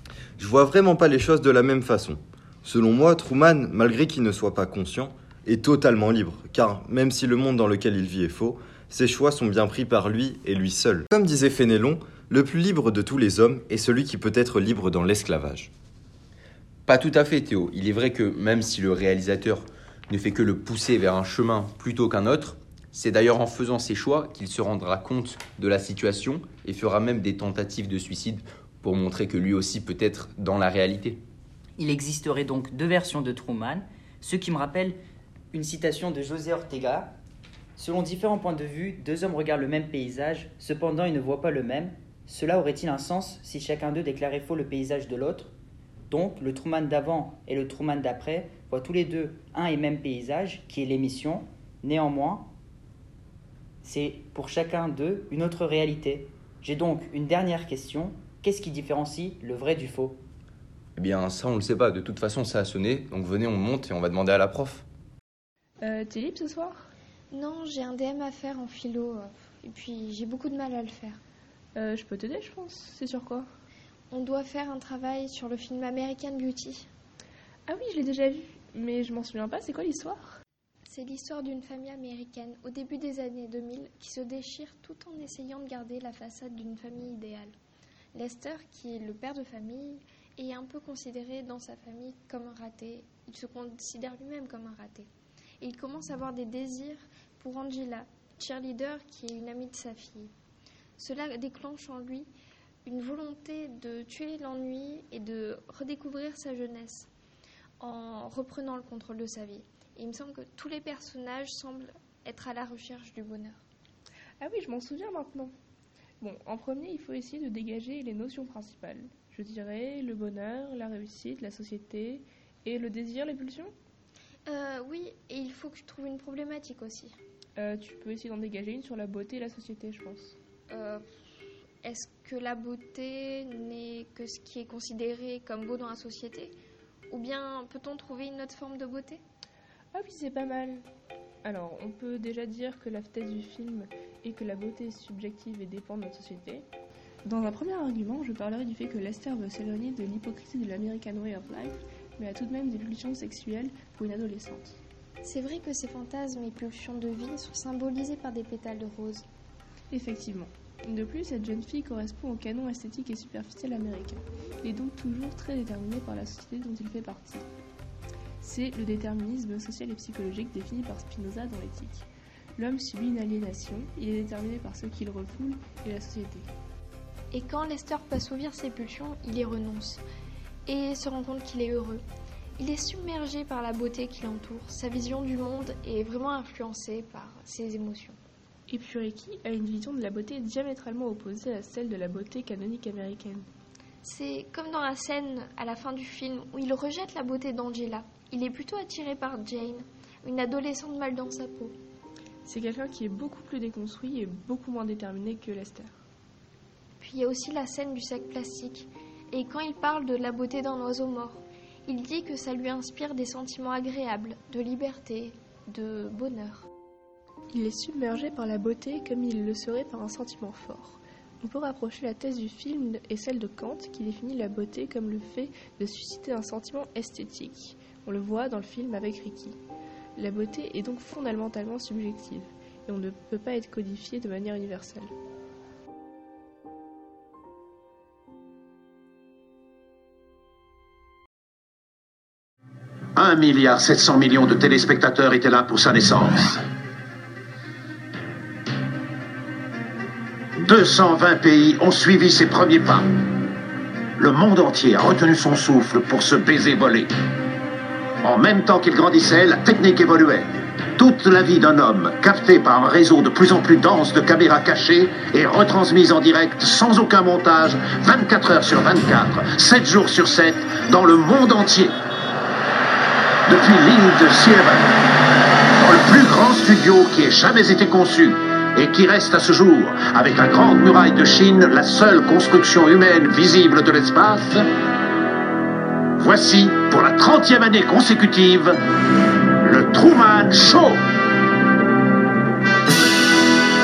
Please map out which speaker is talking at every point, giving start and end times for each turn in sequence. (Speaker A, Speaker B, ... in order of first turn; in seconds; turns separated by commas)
Speaker A: 0.4-15.7, Speaker B: 16.9-31.2, Speaker C: 31.8-35.0, Speaker C: 35.5-37.1, Speaker C: 37.8-45.5, Speaker C: 46.1-52.5, Speaker C: 53.8-60.2, Speaker B: 61.0-64.8, Speaker D: 65.8-66.8, Speaker E: 67.3-71.2, Speaker D: 71.8-73.5, Speaker E: 74.1-76.9, Speaker D: 77.7-80.3, Speaker E: 80.9-87.5, Speaker E: 88.1-95.1, Speaker E: 95.6-100.3, Speaker E: 101.0-102.3, Speaker E: 102.8-107.1, Speaker E: 107.8-113.6, Speaker D: 114.4-115.5, Speaker D: 116.2-123.7, Speaker E: 124.5-127.2, Speaker D: 127.6-130.4, Speaker E: 130.7-131.1, Speaker E: 131.8-136.6, Speaker E: 137.1-139.2, Speaker D: 139.9-140.8, Speaker D: 141.4-146.7, Speaker D: 147.2-154.8, Speaker E: 155.2-159.2, Speaker D: 159.9-167.5, Speaker D: 168.4-176.5, Speaker E: 177.3-180.0, Speaker E: 180.7-182.0, Speaker E: 182.6-188.2, Speaker D: 188.7-193.5, Speaker E: 194.0-201.8, Speaker D: 202.4-205.9, Speaker E: 207.0-216.7, Speaker D: 217.5-229.6, Speaker D: 230.2-235.1, Speaker F: 243.2-246.6, Speaker F: 250.6-253.1, Speaker F: 254.2-257.1, Speaker F: 258.2-271.9, Speaker F: 273.5-274.9, Speaker F: 275.8-284.6, Speaker F: 286.2-288.8, Speaker F: 289.6-291.0